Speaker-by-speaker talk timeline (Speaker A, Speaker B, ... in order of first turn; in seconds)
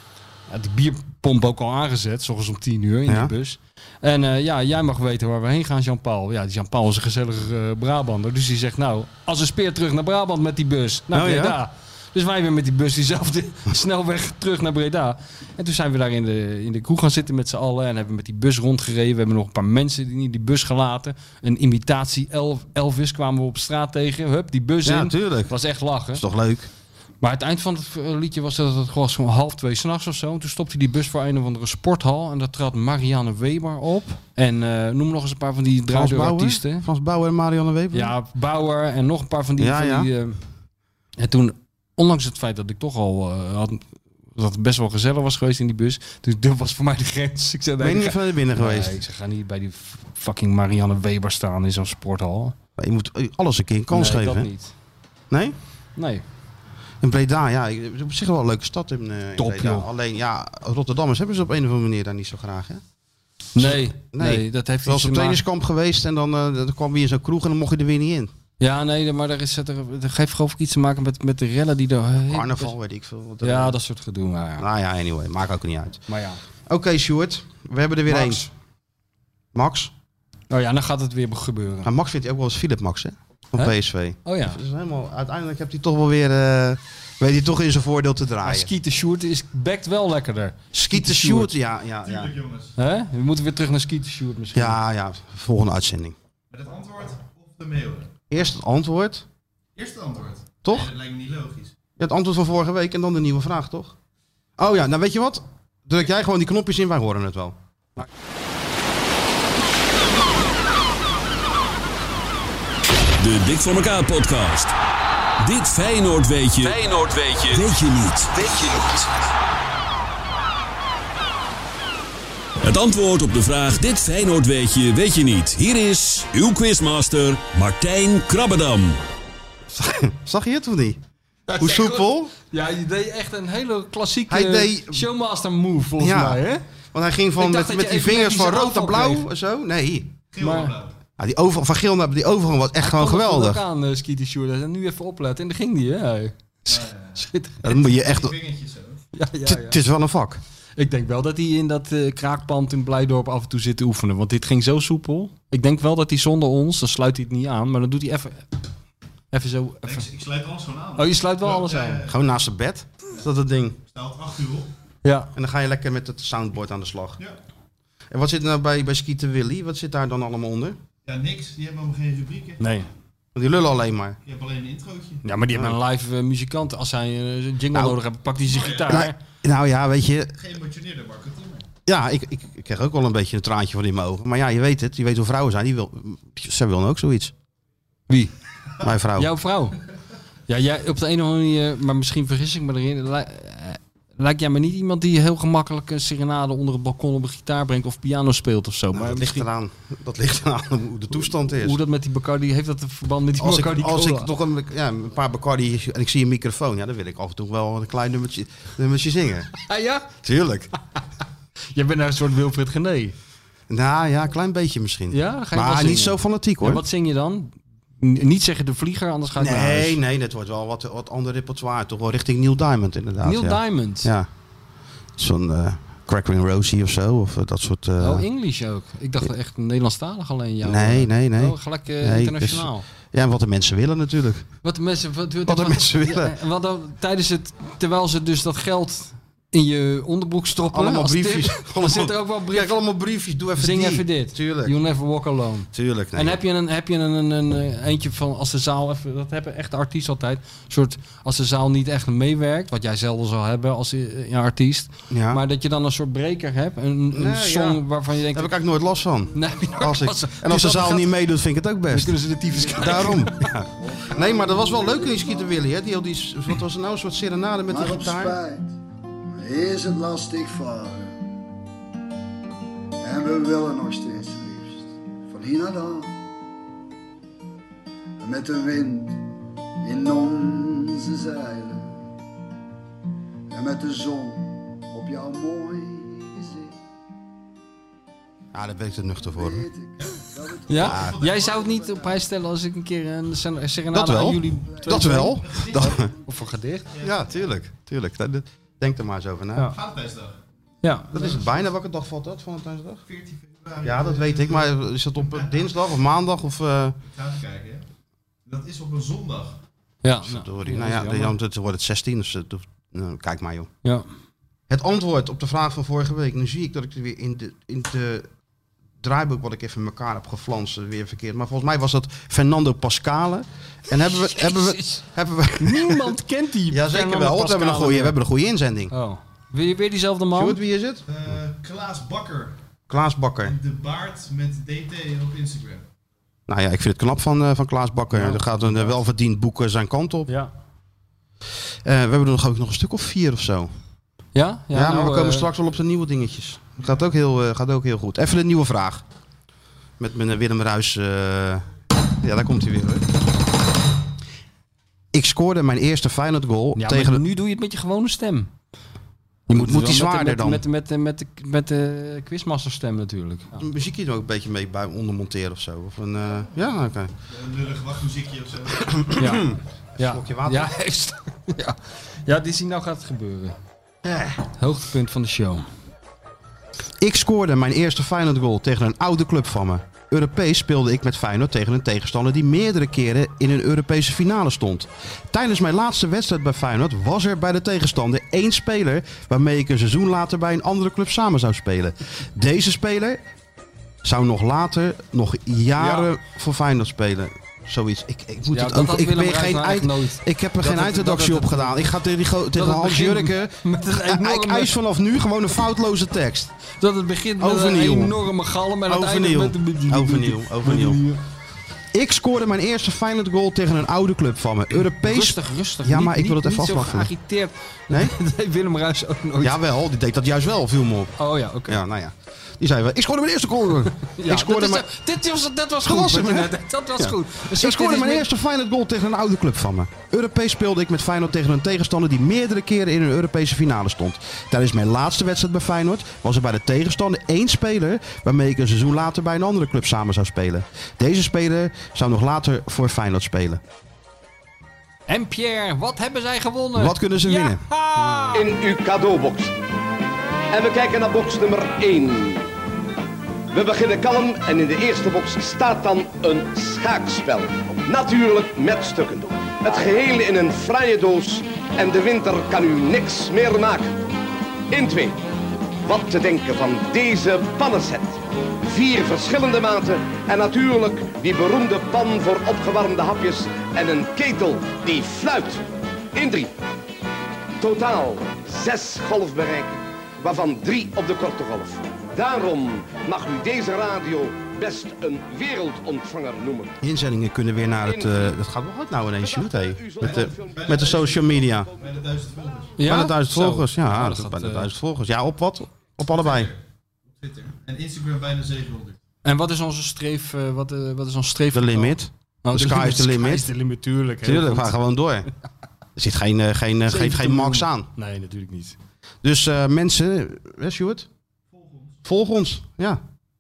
Speaker A: 0.5-26.2, 27.2-36.9, 37.9-40.4, 41.2-52.5, 53.9-54.7, 56.0-56.2, 59.4-59.9, 63.5-65.4, 68.6-72.7, 73.4-74.7, 76.1-76.4, 78.1-78.5, 80.5-81.9, 83.6-84.6, 88.4-91.5, 92.8-94.8, 131.5-136.6, 137.4-139.3, 140.4-140.8, 142.8-147.7, 149.1-149.8, 150.8-158.5, 159.3-160.1, 161.0-162.1, 165.0-165.3, 172.6-172.9, 175.2-179.2, 189.2-189.8, 190.5-199.5, 201.4-204.3, 209.6-210.2, 211.7-213.2, 215.1-220.0, 223.2-224.1, 228.0-232.8, 234.6-242.8, 243.6-258.5, 259.3-261.1, 261.9-263.5, 290.7-296.9, 300.8-301.4, 310.0-311.4, 324.3-325.0, 325.6-328.2, 328.9-330.6, 338.1-339.0, 344.4-345.5, 356.8-358.5, 359.5-363.6, 369.2-373.6, 374.6-375.7, 395.8-396.1, 398.5-401.9, 402.5-404.7, 406.8-411.2, 415.0-419.6, 421.2-421.8, 424.1-428.3, 445.1-448.5, 492.8-494.7, 499.2-504.7, 506.9-508.8
Speaker B: 3.1-3.3, 11.1-11.6, 24.8-25.6, 26.1-26.7, 35.9-38.1, 39.6-40.1, 47.8-49.0, 52.8-54.5, 55.3-55.6, 57.0-62.8, 63.6-68.3, 72.3-73.8, 74.6-76.0, 76.7-78.5, 79.5-79.9, 81.8-88.7, 90.7-92.3, 94.5-96.2, 98.3-99.3, 100.6-100.9, 102.0-104.0, 104.6-108.0, 129.7-131.0, 131.6-132.3, 134.3-135.1, 136.0-136.4, 136.9-140.2, 141.2-143.6, 147.6-148.3, 149.4-150.4, 162.1-163.8, 165.3-167.2, 168.1-170.8, 173.3-174.2, 178.9-180.3, 181.9-187.3, 188.8-189.3, 198.9-201.8, 203.4-209.5, 210.2-210.7, 213.7-216.8, 219.4-224.3, 225.2-228.3, 230.6-234.5, 235.5-236.4, 240.7-244.8, 245.7-246.4, 255.1-255.4, 257.1-268.4, 288.5-289.6, 290.8-291.1, 293.9-296.1, 297.0-299.7, 301.1-303.0, 303.8-307.0, 310.2-313.7, 314.7-318.3, 319.0-326.2, 326.7-328.9, 330.3-331.1, 332.9-333.6, 336.5-340.3, 341.8-343.7, 344.7-349.0, 350.0-351.7, 352.2-353.1, 355.1-357.2, 359.5-360.6, 363.6-367.1, 369.0-370.7, 374.1-374.4, 377.0-393.2, 394.0-406.5, 407.4-408.2, 408.9-411.0, 411.9-417.1, 419.4-421.1, 421.7-424.9, 425.8-443.6, 446.8-447.6, 486.8-491.7, 492.8-496.5, 501.5-503.5, 504.2-505.3, 506.0-507.9, 509.2-511.1, 512.0-513.0
Speaker C: 92.0-92.8, 96.5-98.1, 99.8-101.7, 140.3-140.9, 146.7-149.0, 159.8-162.2, 163.9-164.7, 171.1-172.6, 174.2-175.2, 178.5-179.0, 180.4-181.7, 290.0-291.5, 295.2-295.9, 296.9-297.4, 299.7-300.4, 303.1-305.7, 307.1-307.8, 308.5-309.6, 331.1-332.6, 333.4-335.9, 367.3-369.0, 490.0-492.8, 496.2-496.6, 497.2-499.0, 511.5-512.0
Speaker D: 113.2-114.7, 115.4-119.1, 122.6-129.0
Speaker E: 263.8-265.6, 267.7-271.3, 273.0-276.2, 278.2-279.2, 279.8-282.1, 283.5-286.7, 289.3-292.2
Speaker F: 448.3-449.5, 450.5-452.5, 453.5-463.9, 464.7-465.2, 465.9-475.6, 476.1-476.5, 477.6-486.8, 487.8-488.4, 489.2-491.0